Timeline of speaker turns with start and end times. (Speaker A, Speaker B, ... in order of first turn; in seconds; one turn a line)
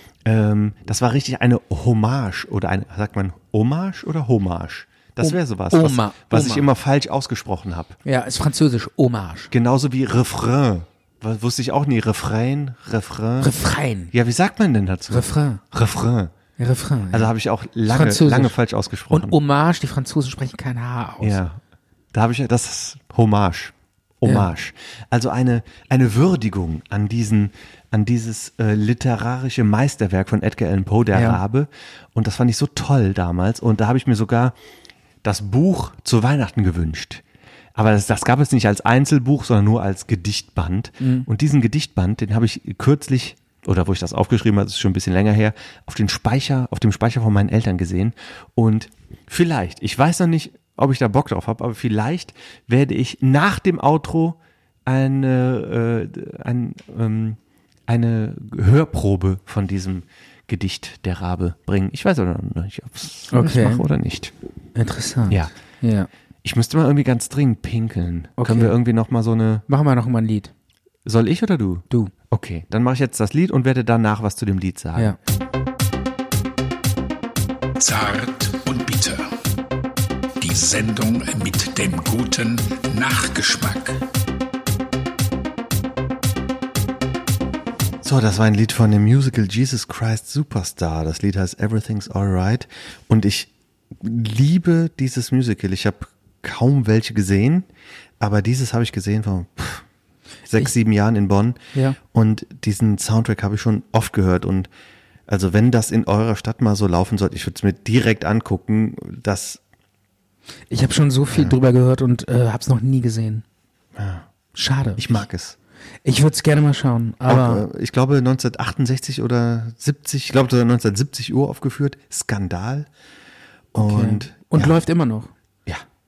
Speaker A: 0.2-8.0
Speaker B: 5.2-6.7
Speaker B: 8.0-9.5
Speaker A: 9.5-13.5
Speaker B: 13.4-14.1
Speaker A: 14.1-16.3
Speaker B: 15.1-15.6
Speaker B: 16.6-17.3
Speaker A: 17.1-19.4
Speaker B: 17.9-18.6
Speaker B: 19.1-21.4
Speaker A: 21.2-21.6
Speaker A: 22.1-34.5
Speaker B: 31.1-31.4
Speaker A: 35.2-37.2
Speaker A: 37.7-64.3
Speaker B: 41.0-41.3
Speaker B: 63.3-63.8
Speaker B: 64.8-66.1
Speaker A: 66.4-69.6
Speaker B: 68.4-68.7
Speaker B: 69.7-70.5
Speaker A: 71.0-75.2
Speaker C: 77.8-79.3
Speaker C: 80.4-84.0
Speaker A: 88.0-97.7
Speaker A: 98.2-99.8
Speaker A: 100.5-104.7
Speaker A: 105.3-109.6
Speaker B: 110.7-113.4
Speaker A: 113.9-114.3
Speaker B: 114.5-115.2
Speaker A: 115.0-115.6
Speaker B: 116.0-117.6
Speaker A: 117.2-122.9
Speaker A: 123.7-124.7
Speaker B: 123.8-125.3